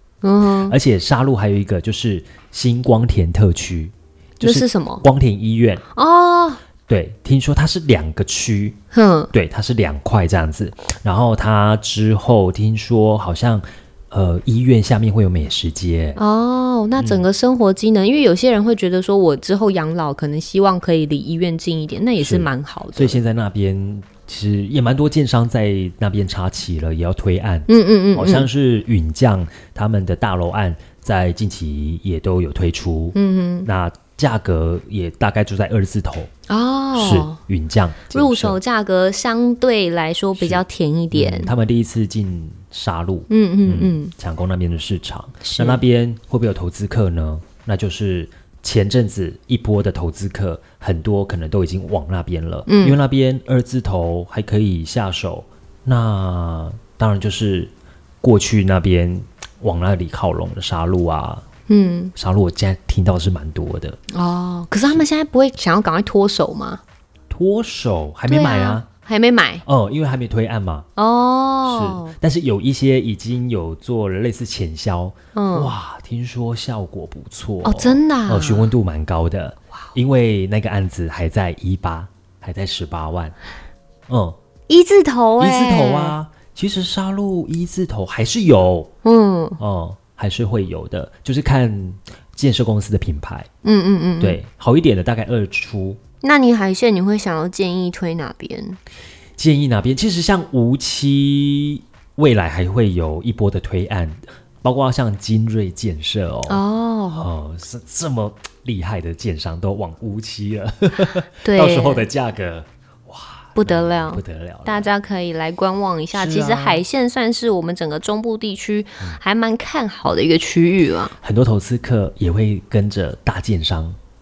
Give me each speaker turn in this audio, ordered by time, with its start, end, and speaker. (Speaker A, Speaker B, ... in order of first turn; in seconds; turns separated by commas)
Speaker A: 0.2-0.8, Speaker B: 0.6-5.8, Speaker A: 4.4-5.0, Speaker A: 5.9-6.6, Speaker B: 6.9-8.8, Speaker A: 8.9-9.3, Speaker B: 9.3-16.2, Speaker A: 16.2-23.2, Speaker B: 17.0-17.3, Speaker B: 22.2-36.3, Speaker A: 27.7-28.5, Speaker A: 33.1-33.7, Speaker A: 36.5-37.4, Speaker B: 37.0-38.6, Speaker A: 38.1-41.5, Speaker B: 40.4-61.5, Speaker A: 43.3-44.1, Speaker A: 45.4-45.8, Speaker A: 52.7-53.0, Speaker A: 61.7-62.1, Speaker B: 62.2-64.0, Speaker A: 64.1-66.8, Speaker B: 67.3-68.9, Speaker A: 68.3-69.6, Speaker B: 69.7-70.9, Speaker A: 71.0-72.2, Speaker B: 71.7-83.3, Speaker A: 75.3-75.7, Speaker A: 77.6-78.7, Speaker B: 84.1-84.4, Speaker A: 84.7-86.2, Speaker B: 85.4-88.9, Speaker A: 89.0-89.6, Speaker B: 89.6-93.5, Speaker A: 93.6-94.4, Speaker B: 94.2-96.0, Speaker A: 96.2-98.8, Speaker B: 99.4-106.6, Speaker A: 106.5-107.3, Speaker B: 107.2-114.9, Speaker A: 111.5-112.1, Speaker A: 113.5-121.1, Speaker B: 116.1-116.8, Speaker B: 121.2-124.0